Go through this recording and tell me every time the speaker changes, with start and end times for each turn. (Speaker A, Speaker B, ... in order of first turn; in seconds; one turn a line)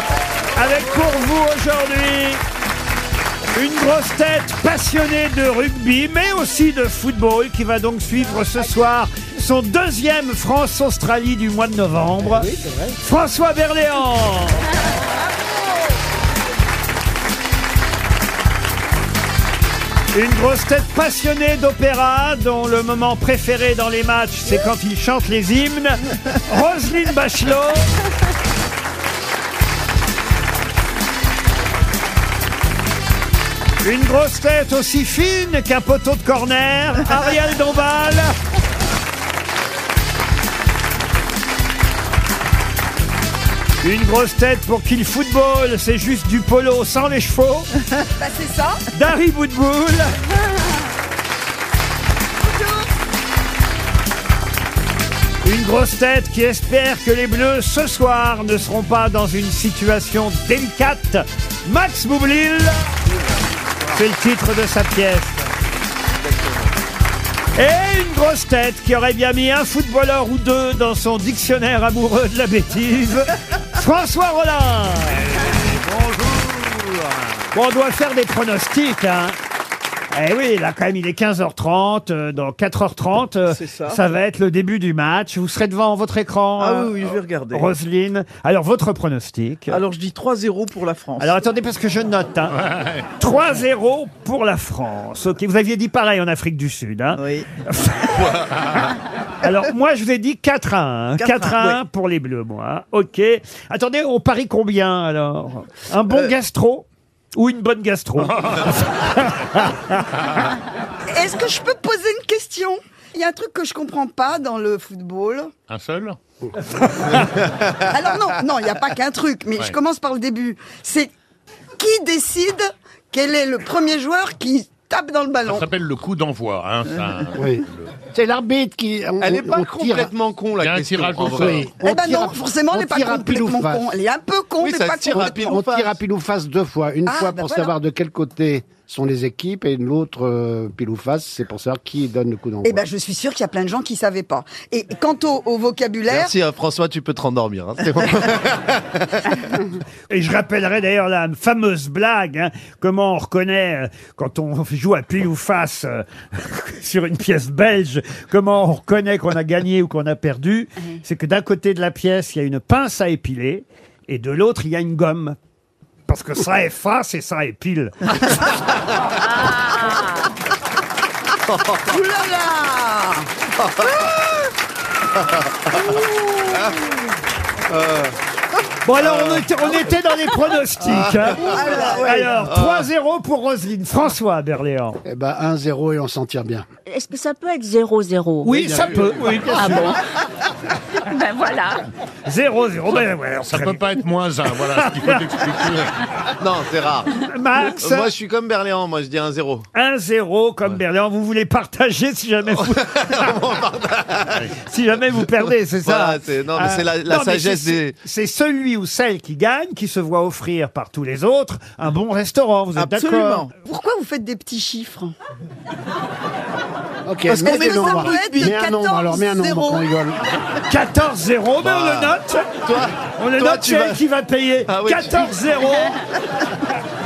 Speaker A: 0.6-2.4
Speaker A: 3.5-14.7
Speaker B: 12.2-13.0
Speaker A: 20.1-27.9
Speaker A: 33.8-38.3
Speaker A: 43.8-47.7
Speaker C: 48.2-48.8
Speaker A: 48.9-50.2
Speaker C: 52.4-52.9
Speaker A: 55.4-63.0
Speaker A: 63.9-65.4
Speaker A: 67.5-75.3
Speaker A: 77.5-79.3
Speaker A: 80.1-89.8
Speaker D: 83.5-84.0
Speaker D: 86.6-87.7
Speaker D: 89.7-91.3
Speaker A: 91.2-92.6
Speaker E: 92.5-93.1
Speaker A: 93.2-98.3
Speaker D: 97.1-97.5
Speaker A: 99.4-110.0
Speaker D: 101.2-101.8
Speaker E: 108.2-108.8
Speaker C: 111.1-115.5
Speaker E: 115.7-116.2
Speaker A: 116.8-117.2
Speaker C: 117.9-121.1
Speaker C: 121.8-125.6
Speaker E: 125.5-127.9
Speaker B: 127.3-130.1
Speaker F: 129.2-131.7
Speaker E: 130.6-131.7
Speaker B: 131.3-134.0
Speaker C: 131.8-135.5
Speaker F: 134.6-135.9
Speaker B: 135.1-142.8
Speaker C: 137.1-137.7
Speaker C: 142.6-146.3
Speaker F: 146.1-149.3
Speaker A: 150.1-165.4
Speaker A: 166.1-168.5
Speaker G: 169.4-170.1
Speaker F: 171.5-171.8
Speaker C: 171.9-173.3
Speaker F: 173.6-173.9
Speaker F: 175.2-175.9
Speaker C: 175.7-176.8
Speaker F: 177.7-178.1
Speaker A: 178.8-185.0
Speaker F: 179.0-179.4
Speaker F: 180.9-181.6
Speaker C: 181.4-182.0
Speaker D: 181.4-182.3
Speaker F: 182.4-182.9
Speaker B: 185.0-186.7
Speaker G: 186.9-188.7
Speaker A: 188.4-189.9
Speaker B: 188.5-189.9
Speaker G: 189.5-190.0
Speaker G: 191.0-191.8
Speaker A: 192.3-193.8
Speaker E: 193.4-195.9
Speaker A: 194.7-195.2
Speaker F: 196.4-197.1
Speaker A: 197.2-198.1
Speaker F: 197.7-199.7
Speaker A: 199.7-203.2
Speaker F: 202.6-204.5
Speaker A: 204.6-213.5
Speaker F: 205.4-207.9
Speaker D: 212.8-213.5
Speaker C: 213.6-215.1
Speaker B: 217.1-220.2
Speaker D: 217.3-218.6
Speaker C: 217.4-219.8
Speaker A: 220.7-222.5
Speaker F: 221.6-224.0
Speaker A: 223.1-225.9
Speaker F: 224.6-225.4